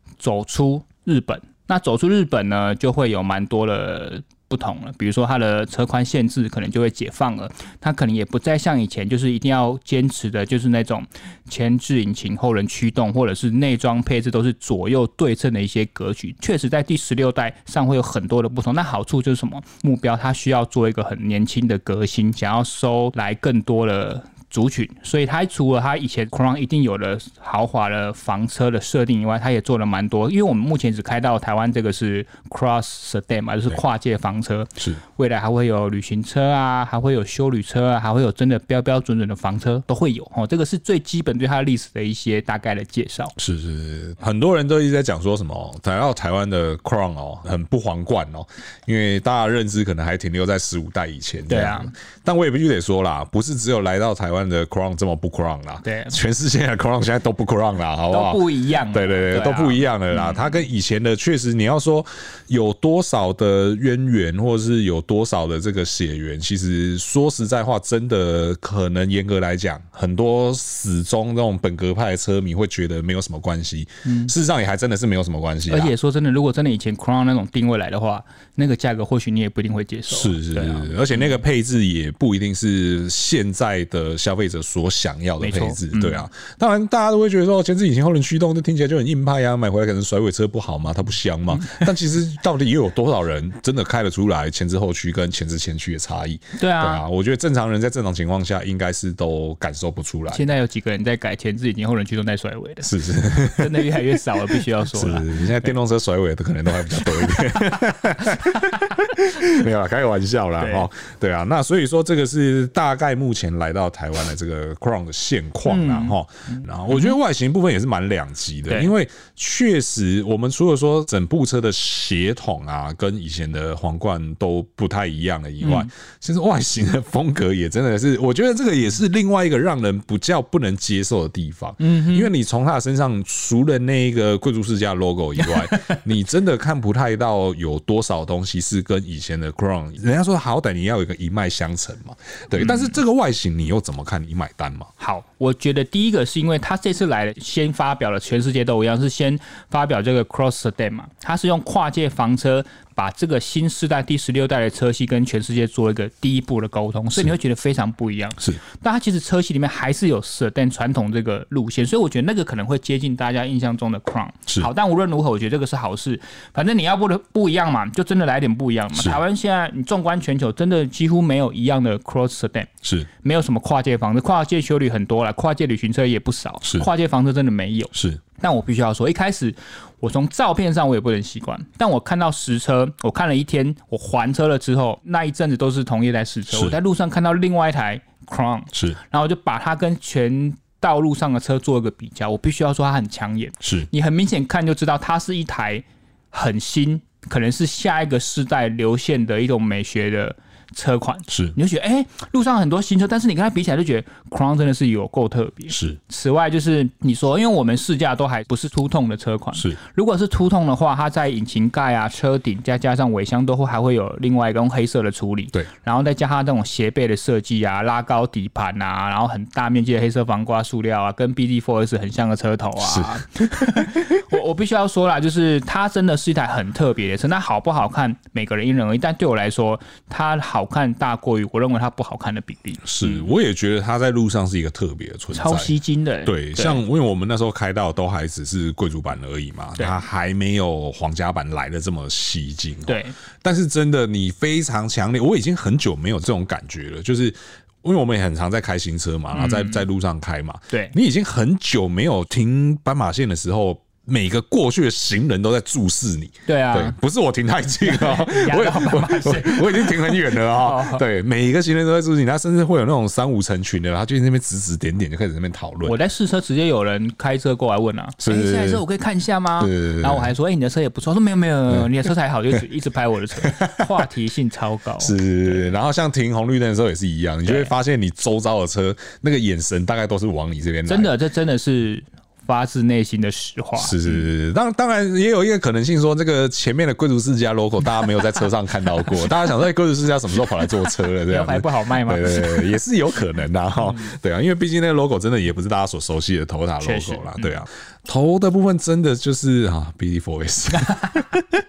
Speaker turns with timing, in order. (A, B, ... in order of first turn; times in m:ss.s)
0:00.2-0:43.3 A
0:43.4-1:15.9 B
0:51.5-0:51.9 A
0:55.8-0:56.2 A
0:58.1-1:00.5 A
1:14.0-1:14.3 A
1:15.7-1:21.4 A
1:20.1-1:40.5 B
1:25.4-1:26.2 A
1:31.5-1:31.9 A
1:36.6-1:37.0 A
1:40.3-1:45.8 A
1:42.8-1:43.9 B
1:44.9-2:24.9 B
1:48.5-1:48.8 A
1:50.6-1:50.9 A
1:55.7-1:57.2 A
2:05.6-2:05.9 A
2:11.8-2:12.3 A
2:22.6-2:23.0 A
2:25.0-2:52.7 A
2:53.2-3:53.3 A
2:56.6-2:56.9 B
2:57.9-2:58.2 B
3:08.7-3:09.0 B
3:13.6-3:13.9 B
3:21.3-3:21.6 B
3:25.7-3:26.0 B
3:42.8-3:43.9 B
3:52.8-3:55.7 B
3:55.3-3:56.8 A
3:56.2-4:26.0 B
4:02.9-4:03.2 A
4:09.3-4:09.8 A
4:16.5-4:17.0 A
4:17.8-4:21.0 A
4:25.8-4:35.7 A
4:28.2-4:28.8 B
4:29.6-4:30.3 B
4:33.4-4:33.9 B
4:35.0-4:41.1 B
4:37.4-4:37.7 A
4:40.9-4:44.2 A
4:43.8-5:01.4 B
4:51.3-4:52.7 A
4:56.8-4:57.6 A